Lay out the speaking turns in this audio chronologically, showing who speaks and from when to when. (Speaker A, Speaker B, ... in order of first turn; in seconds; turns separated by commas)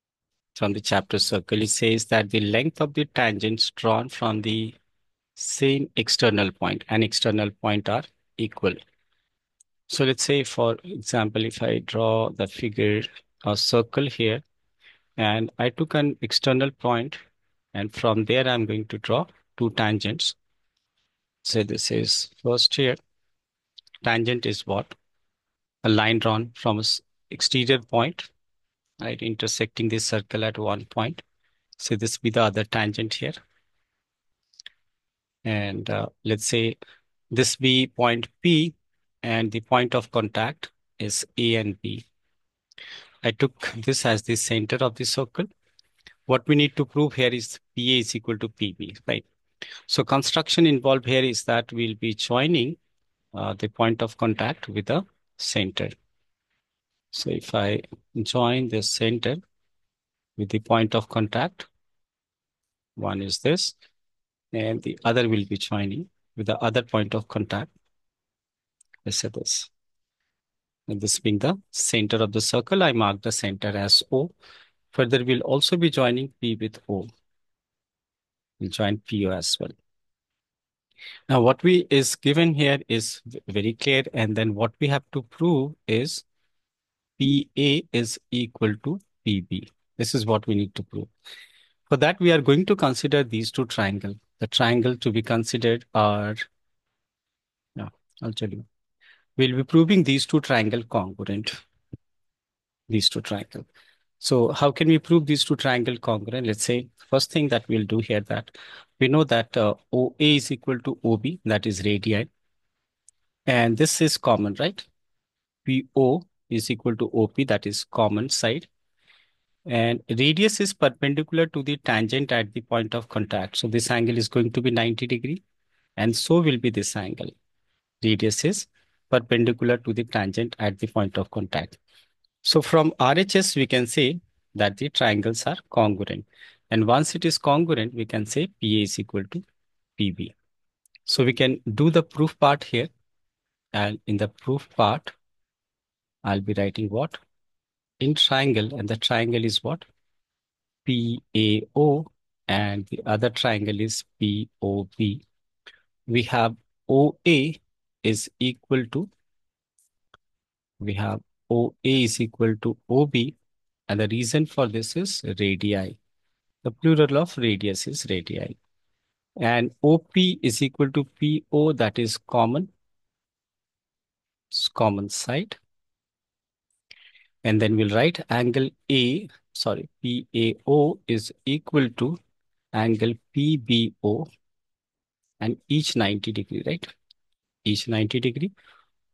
Speaker A: 0.6-4.8, Speaker A: 5.3-8.8, Speaker A: 9.9-14.4, Speaker A: 15.2-17.2, Speaker A: 17.7-20.4, Speaker A: 21.4-23.0, Speaker A: 24.0-24.9, Speaker A: 25.8-28.3, Speaker A: 29.0-31.2, Speaker A: 31.8-33.4, Speaker A: 35.4-36.8, Speaker A: 37.3-42.0, Speaker A: 43.2-45.5, Speaker A: 46.3-49.2, Speaker A: 49.9-52.8, Speaker A: 53.3-56.0, Speaker A: 57.1-59.4, Speaker A: 60.4-61.7, Speaker A: 63.0-63.7, Speaker A: 64.5-67.7, Speaker A: 69.0-69.7, Speaker A: 70.9-74.3, Speaker A: 74.9-77.1, Speaker A: 78.6-79.7, Speaker A: 81.3-86.2, Speaker A: 87.2-91.1, Speaker A: 91.9-96.4, Speaker A: 97.8-98.7, Speaker A: 99.4-101.5, Speaker A: 102.9-103.7, Speaker A: 104.2-112.3, Speaker A: 113.5-114.8, Speaker A: 115.7-118.7, Speaker A: 119.7-125.4, Speaker A: 126.0-127.3, Speaker A: 128.0-131.8, Speaker A: 132.4-139.4, Speaker A: 140.0-140.3, Speaker A: 141.1-142.9, Speaker A: 143.7-145.1, Speaker A: 146.2-147.2, Speaker A: 148.0-149.8, Speaker A: 150.8-155.2, Speaker A: 156.1-159.1, Speaker A: 160.8-163.3, Speaker A: 163.9-166.0, Speaker A: 166.6-168.6, Speaker A: 169.4-172.7, Speaker A: 174.5-175.6, Speaker A: 177.4-182.2, Speaker A: 182.7-184.3, Speaker A: 185.4-186.9, Speaker A: 187.6-188.5